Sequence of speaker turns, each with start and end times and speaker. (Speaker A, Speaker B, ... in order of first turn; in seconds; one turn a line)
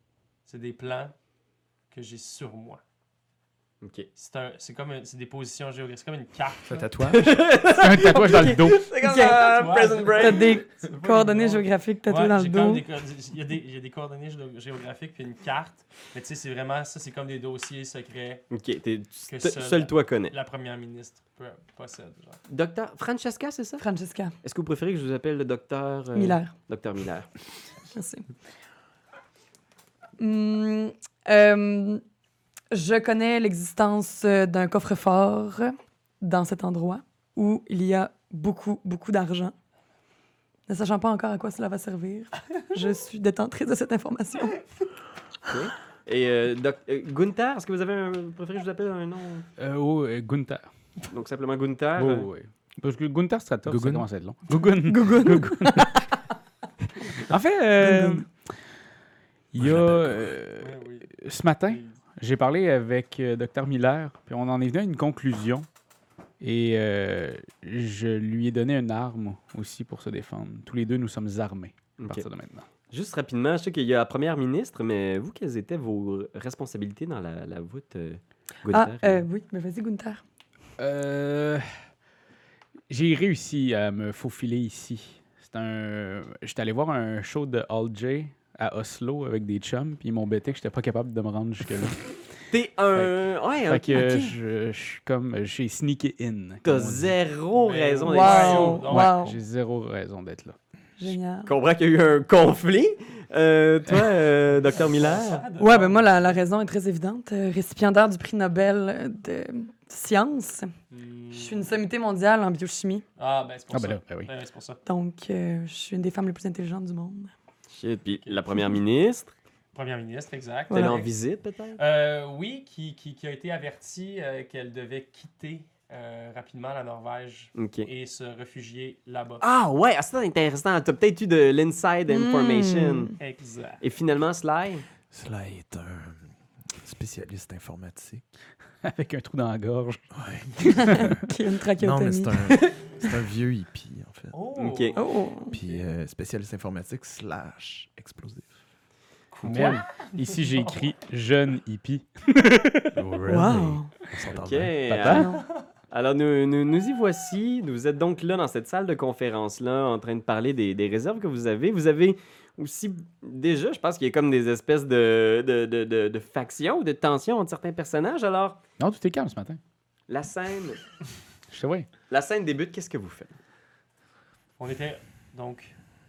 Speaker A: 0.5-1.1
Speaker A: 1.9-2.8
Speaker B: 3.8-4.1
Speaker A: 4.2-7.0
Speaker C: 6.7-7.4
Speaker B: 7.1-10.5
Speaker D: 7.7-8.9
Speaker E: 9.0-9.4
Speaker A: 9.2-18.5
Speaker E: 10.2-12.8
Speaker B: 18.5-20.3
Speaker A: 19.3-22.4
Speaker B: 22.5-23.8
Speaker E: 23.8-24.3
Speaker B: 24.4-27.3
Speaker E: 26.1-26.5
Speaker E: 27.9-28.2
Speaker E: 30.2-32.0
Speaker E: 32.7-39.5
Speaker E: 40.7-44.6
Speaker B: 45.5-49.5
Speaker D: 49.6-50.7
Speaker B: 51.1-52.3
Speaker D: 52.0-55.9
Speaker C: 53.6-54.0
Speaker E: 54.9-56.2
Speaker D: 57.2-58.5
Speaker E: 57.8-58.2
Speaker D: 59.5-65.7
Speaker C: 59.6-60.3
Speaker A: 60.6-61.1
Speaker A: 61.7-62.0
Speaker D: 66.4-72.7
Speaker B: 72.0-72.3
Speaker B: 72.9-79.3
Speaker E: 78.7-80.2
Speaker D: 80.8-81.7
Speaker D: 82.9-92.1
Speaker B: 92.5-94.0
Speaker D: 93.7-97.2
Speaker E: 93.9-94.3
Speaker B: 96.6-98.8
Speaker A: 97.5-99.1
Speaker E: 98.0-99.4
Speaker D: 98.8-100.6
Speaker E: 101.0-101.5
Speaker B: 101.5-105.4
Speaker A: 104.7-106.4
Speaker E: 105.6-110.7
Speaker A: 110.9-111.7
Speaker E: 111.3-113.0
Speaker A: 113.2-114.8
Speaker D: 113.7-114.3
Speaker E: 114.8-117.3
Speaker B: 117.7-119.3
Speaker A: 119.7-121.1
Speaker E: 120.7-121.0
Speaker B: 120.7-121.8
Speaker A: 121.8-129.4
Speaker B: 127.5-127.9
Speaker B: 129.4-133.1
Speaker E: 132.1-133.1
Speaker A: 133.2-133.8
Speaker B: 133.8-134.8
Speaker C: 135.1-138.2
Speaker D: 138.8-141.2
Speaker C: 140.1-141.1
Speaker E: 140.8-142.7
Speaker C: 141.8-144.4
Speaker A: 144.3-145.9
Speaker B: 144.5-145.0
Speaker E: 144.9-145.6
Speaker C: 145.5-148.6
Speaker A: 149.3-150.9
Speaker D: 149.4-153.0
Speaker C: 152.9-154.8
Speaker E: 153.3-153.9
Speaker B: 154.3-155.3
Speaker D: 154.8-155.4
Speaker E: 155.1-155.4
Speaker B: 155.9-168.6
Speaker D: 168.8-169.6
Speaker B: 170.1-170.8
Speaker D: 171.5-171.9
Speaker B: 172.1-173.4
Speaker A: 174.6-175.8